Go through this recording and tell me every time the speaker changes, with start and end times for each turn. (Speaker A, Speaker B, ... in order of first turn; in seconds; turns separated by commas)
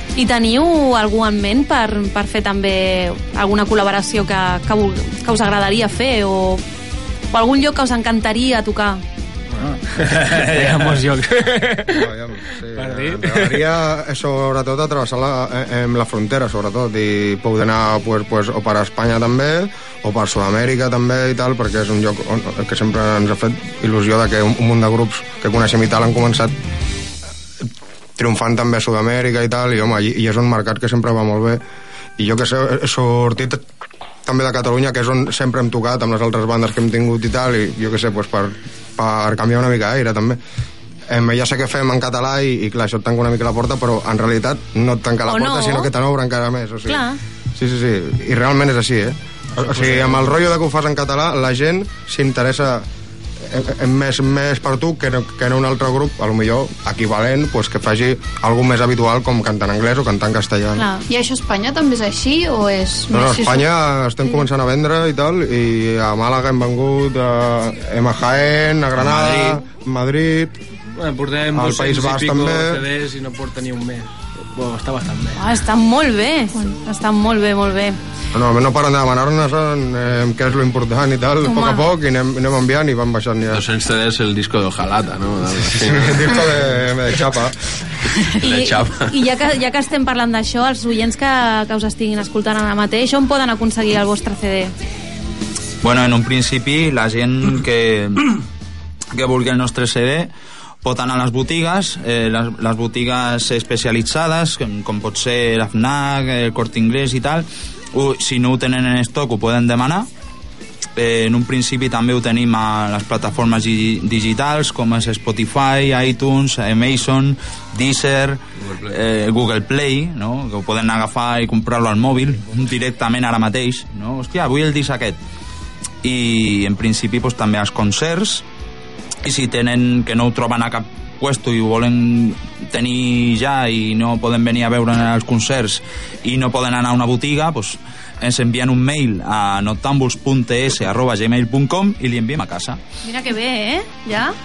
Speaker A: 0.1-6.6, Speaker A: 7.3-9.0, Speaker B: 9.6-12.1, Speaker C: 11.9-26.5, Speaker B: 12.7-13.7, Speaker C: 28.2-31.6, Speaker C: 32.2-33.6, Speaker C: 34.2-40.4, Speaker C: 41.1-52.9, Speaker A: 45.3-45.9, Speaker A: 46.9-47.2, Speaker B: 49.5-50.4, Speaker C: 53.4-60.9, Speaker A: 60.8-61.0, Speaker D: 61.1-63.7, Speaker C: 63.1-70.6, Speaker E: 69.0-69.6, Speaker B: 71.0-75.4, Speaker C: 71.5-72.8, Speaker A: 75.3-78.0, Speaker C: 78.3-83.6, Speaker A: 81.4-81.8, Speaker F: 83.5-86.5, Speaker C: 85.8-87.6, Speaker F: 88.4-89.1, Speaker A: 88.4-94.7, Speaker E: 95.8-98.3, Speaker E: 99.1-100.3, Speaker E: 100.8-110.1, Speaker E: 111.0-125.2, Speaker E: 126.0-128.4, Speaker E: 129.2-142.8, Speaker A: 143.0-144.3